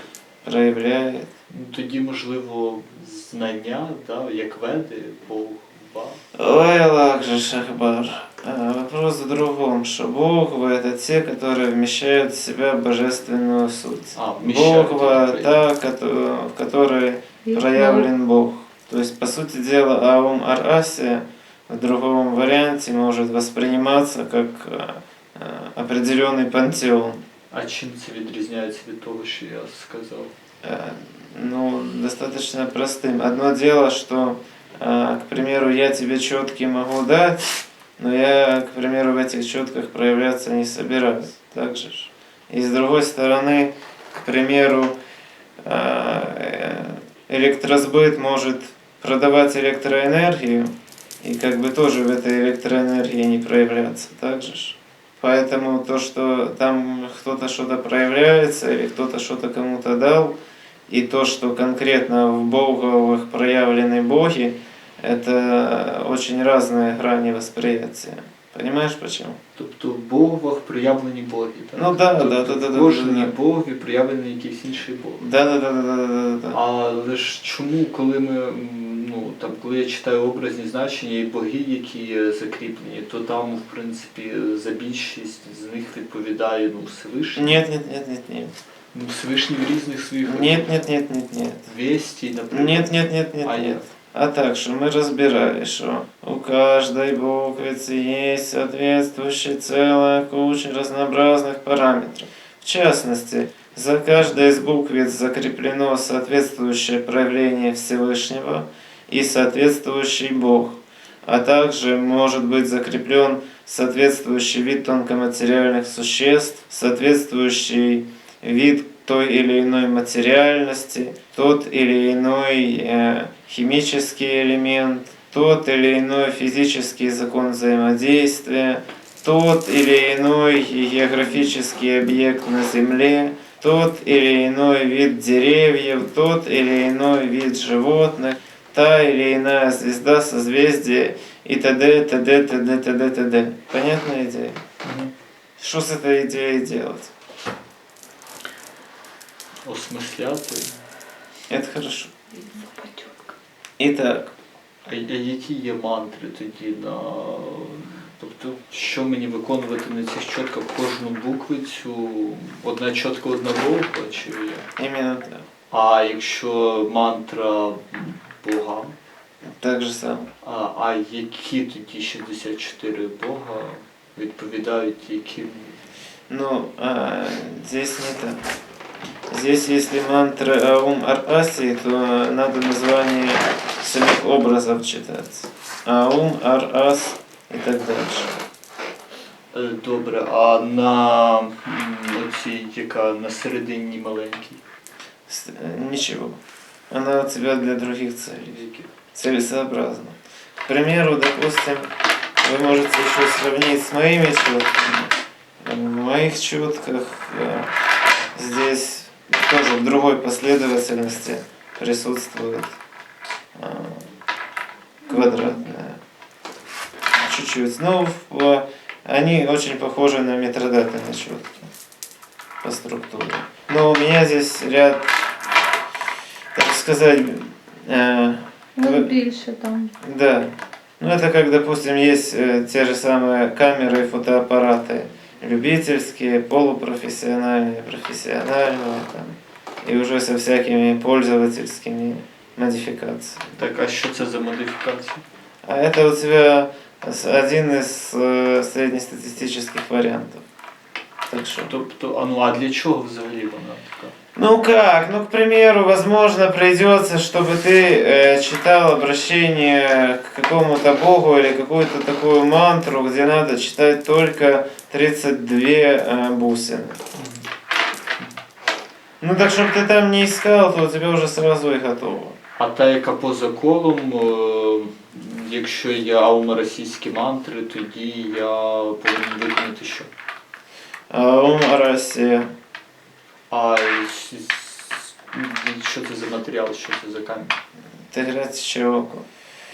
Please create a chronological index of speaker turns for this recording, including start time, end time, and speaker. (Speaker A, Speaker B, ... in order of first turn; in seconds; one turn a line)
Speaker A: 0.4-1.3
Speaker B: 1.5-6.2
Speaker A: 6.3-27.2
Speaker B: 14.1-15.6
Speaker C: 17.4-18.1
Speaker B: 27.5-30.3
Speaker A: 30.6-45.0
Speaker A: 45.6-69.4
Speaker B: 69.5-75.2
Speaker A: 71.7-73.3
Speaker A: 75.2-76.6
Speaker B: 76.5-87.6
Speaker A: 87.3-88.5
Speaker B: 88.9-90.7
Speaker A: 90.2-91.7
Speaker B: 91.7-93.8
Speaker A: 92.5-144.6
Speaker B: 144.8-145.1
Speaker A: 145.6-147.1
Speaker B: 149.7-150.7
Speaker A: 151.5-152.1
Speaker C: 152.3-153.3
Speaker A: 153.8-154.3
Speaker B: 154.8-164.7
Speaker A: 164.8-165.4
Speaker B: 165.7-168.9
Speaker A: 169.5-170.3
Speaker B: 170.4-175.8
Speaker A: 176.3-178.4
Speaker A: 179.3-188.3
Speaker B: 189.5-194.6
Speaker A: 195.3-196.4
Speaker A: 196.9-198.6
Speaker B: 198.5-198.9
Speaker A: 199.1-205.1
Speaker A: 205.6-207.7
Speaker A: 208.3-212.8
Speaker A: 213.5-214.1
Speaker C: 215.1-215.6
Speaker A: 215.1-216.0
Speaker A: 217.2-221.7
Speaker A: 222.6-225.1
Speaker A: 226.5-229.1
Speaker C: 228.8-229.9
Speaker A: 230.0-243.5
Speaker B: 243.6-245.2
Speaker A: 245.6-250.4
Speaker A: 251.3-251.7
Speaker B: 251.7-254.1
Speaker A: 254.3-267.0
Speaker B: 267.1-267.4
Speaker A: 269.2-272.4
Speaker B: 272.6-280.1
Speaker A: 281.1-282.5
Speaker B: 283.5-287.5
Speaker A: 288.1-289.2